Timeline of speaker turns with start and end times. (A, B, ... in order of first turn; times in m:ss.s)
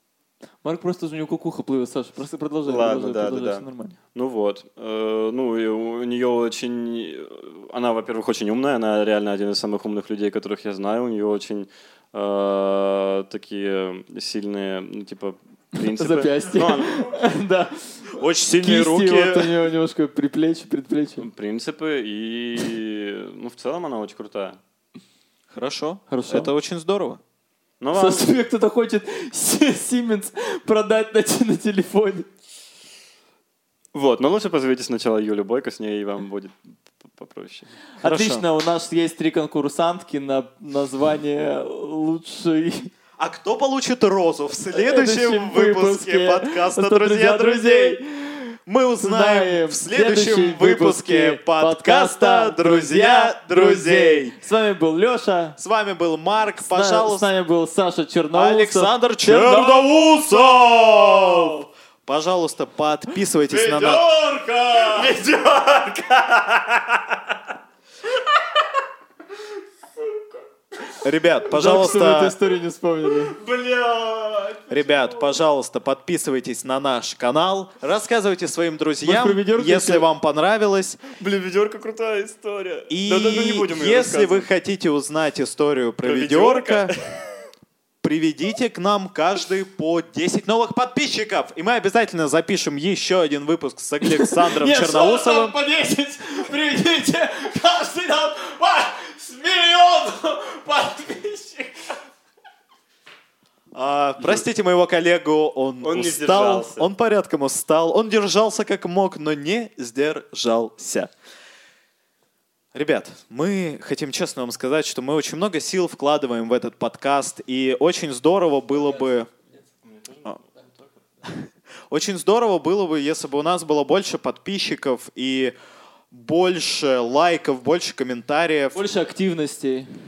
0:00.6-0:04.0 A
0:02.6-0:17.2 B
0:15.8-0:21.3 A
0:18.1-0:19.6 C
0:21.2-0:24.6 B
0:25.5-0:27.2 C
0:26.1-0:26.5 A
0:27.8-0:28.3 B
0:27.9-0:32.3 A
0:33.9-0:37.7 B
0:38.0-0:42.9 A
0:38.0-0:38.5 C
0:43.2-0:48.0 C
0:44.7-0:55.6 A
0:48.7-0:54.3 C
0:55.6-0:57.3 C
0:56.6-0:59.9 A
0:58.3-1:04.0 C
1:03.5-1:07.4 B
1:11.0-1:12.4 C
1:11.5-1:13.4 A
1:13.2-1:15.2 B
1:14.7-1:21.0 C
1:19.0-1:20.1 A
1:21.1-1:24.5 B
1:22.9-1:26.9 C
1:26.0-1:27.2 B
1:28.0-1:35.6 C
1:34.0-1:41.7 A
1:43.7-1:51.1 C
1:44.2-1:44.5 B
1:45.8-1:46.9 B
1:52.7-1:59.3 C
1:59.9-2:00.4 B
2:01.2-2:05.5 C
2:06.1-2:08.8 C
2:08.7-2:09.9 A